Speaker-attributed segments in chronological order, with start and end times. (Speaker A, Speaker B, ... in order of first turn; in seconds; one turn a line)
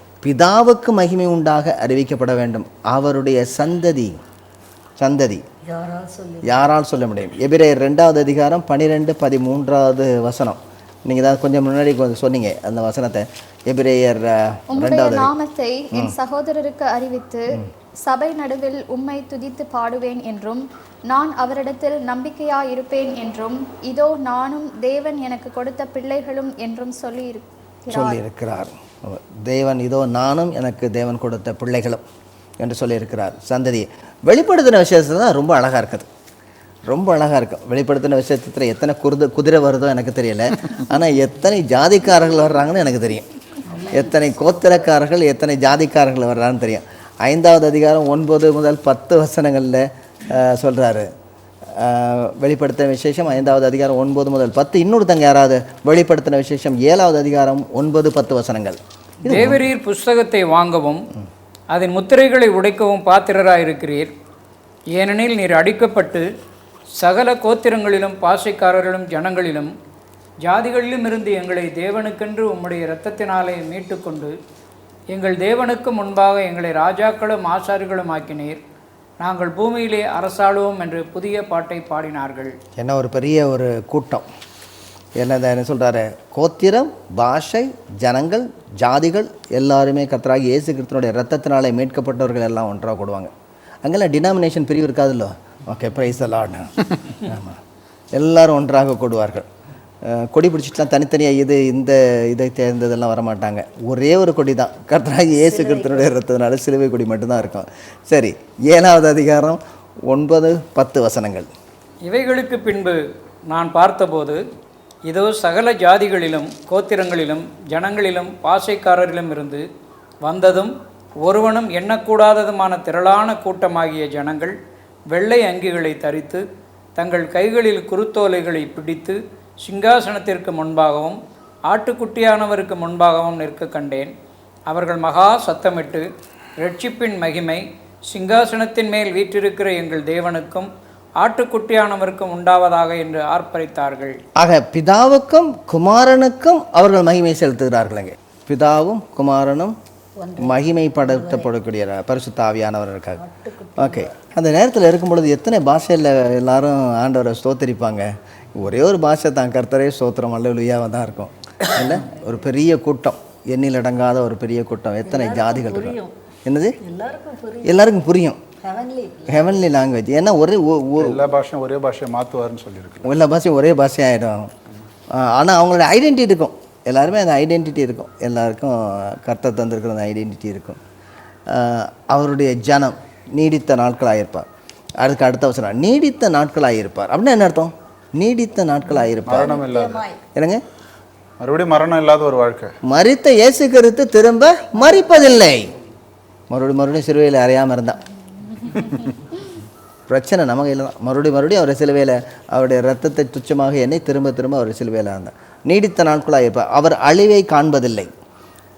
Speaker A: 0.2-4.2
Speaker A: 5.0-5.4
Speaker B: 5.6-6.7
Speaker A: 6.4-10.6
Speaker A: 11.1-15.3
Speaker C: 14.8-27.5
Speaker A: 27.9-32.0
Speaker A: 32.6-36.1
Speaker A: 36.9-43.2
Speaker B: 43.7-44.1
Speaker A: 43.9-51.1
Speaker A: 51.8-59.6
Speaker D: 59.2-61.0
Speaker D: 61.7-64.1
Speaker D: 65.0-66.2
Speaker D: 67.0-69.7
Speaker D: 70.4-74.3
Speaker D: 75.1-78.6
Speaker D: 79.2-82.5
Speaker A: 82.8-84.2
Speaker A: 85.2-93.3
Speaker A: 93.8-97.6
Speaker A: 98.1-99.5
Speaker A: 100.1-111.5
Speaker B: 105.5-106.1
Speaker D: 112.1-114.4
Speaker D: 115.1-119.7
Speaker D: 120.2-120.7
Speaker D: 121.2-124.5
Speaker D: 125.1-126.4
Speaker D: 127.0-134.1
Speaker D: 134.7-136.1
Speaker D: 136.6-144.2
Speaker A: 144.4-149.8
Speaker B: 150.2-151.5
Speaker A: 150.4-153.2
Speaker B: 153.2-154.1
Speaker A: 153.8-166.8
Speaker B: 162.0-162.3
Speaker B: 165.1-166.1
Speaker B: 166.8-168.0
Speaker A: 167.6-168.4
Speaker B: 168.6-169.7
Speaker A: 169.3-171.2
Speaker E: 171.0-173.1
Speaker A: 173.0-174.5
Speaker A: 175.1-180.8
Speaker A: 181.5-184.4
Speaker A: 185.0-189.6
Speaker E: 189.2-190.1
Speaker B: 189.3-190.2
Speaker A: 190.3-190.6
Speaker E: 191.4-192.7
Speaker A: 192.9-195.7
Speaker A: 196.5-198.0
Speaker A: 200.1-208.1